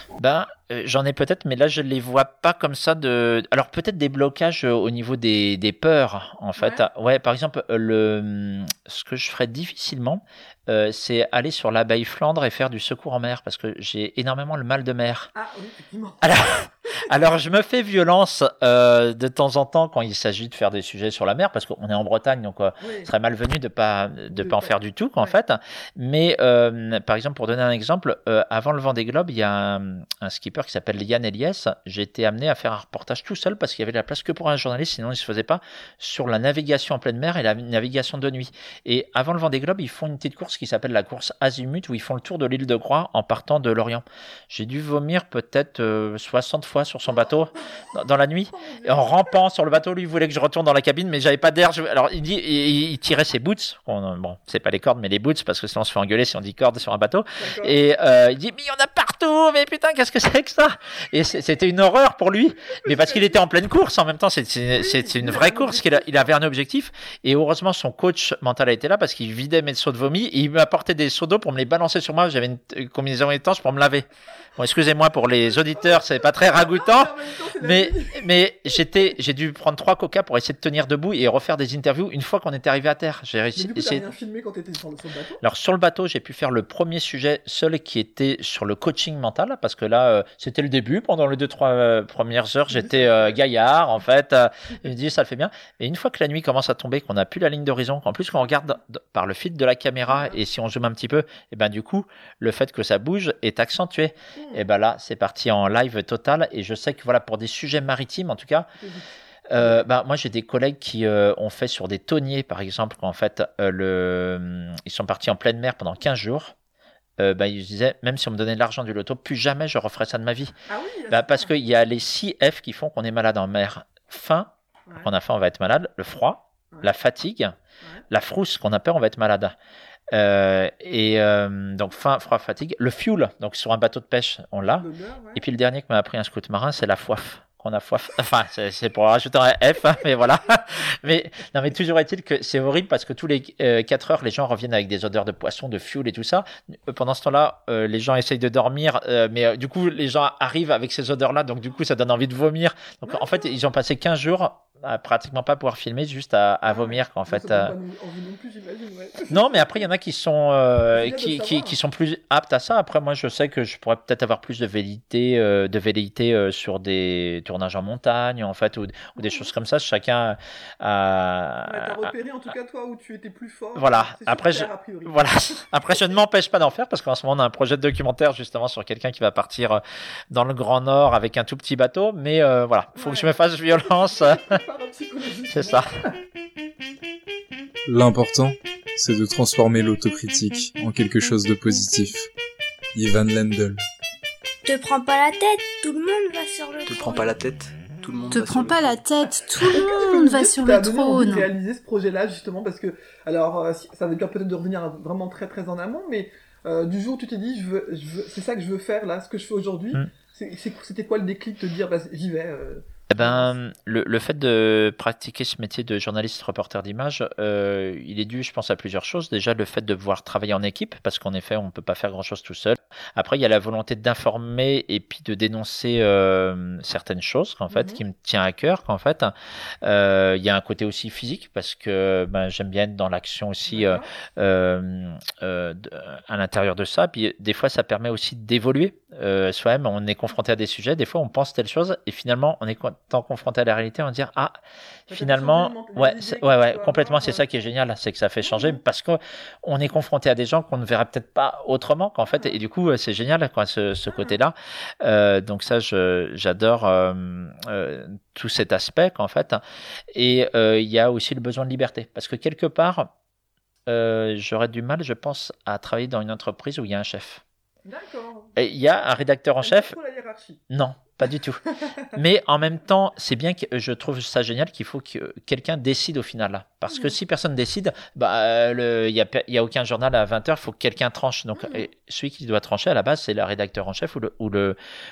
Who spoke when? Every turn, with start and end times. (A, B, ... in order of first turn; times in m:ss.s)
0:00.2-0:15.3 A
0:06.6-0:06.8 B
0:15.3-0:17.1 B
0:16.2-1:24.0 A
0:22.8-0:23.1 B
0:24.3-0:25.4 B
0:48.5-0:49.3 B
0:57.4-0:57.8 B
1:02.8-1:03.4 B
1:04.7-1:06.3 B
1:15.5-1:18.3 B
1:23.5-1:25.4 B
1:25.4-1:48.7 A
1:32.7-1:33.4 B
1:40.1-1:40.4 B
1:44.4-1:44.6 B
1:48.8-1:49.8 B
1:49.5-1:56.5 A
1:57.2-2:00.5 A
2:00.6-2:01.5 B
2:01.1-2:07.5 A
2:08.1-2:09.5 A
2:10.1-2:37.7 A
2:14.6-2:15.4 B
2:33.0-2:33.6 B
2:36.7-2:39.8 B
2:39.3-2:52.1 A
2:40.9-2:41.8 B
2:49.2-2:49.5 B
2:51.6-2:55.6 B
2:53.7-3:04.6 A
3:03.0-3:06.1 B
3:05.5-3:05.9 A
3:07.9-3:12.3 C
3:12.9-3:13.8 C
3:14.6-3:17.3 D
3:16.8-3:19.0 E
3:18.3-3:21.5 F
3:19.6-3:33.6 B
3:33.1-4:19.6 A
3:47.7-3:48.0 B
3:53.6-3:54.1 B
4:05.1-4:07.4 B
4:08.4-4:08.8 B
4:12.3-4:12.6 B
4:14.1-4:14.4 B
4:20.1-4:23.1 A
4:23.9-4:27.4 A
4:27.8-4:28.5 B
4:28.6-4:29.9 A
4:29.6-4:30.6 B
4:30.7-4:44.8 A
4:36.8-4:37.2 B
4:41.6-4:41.8 B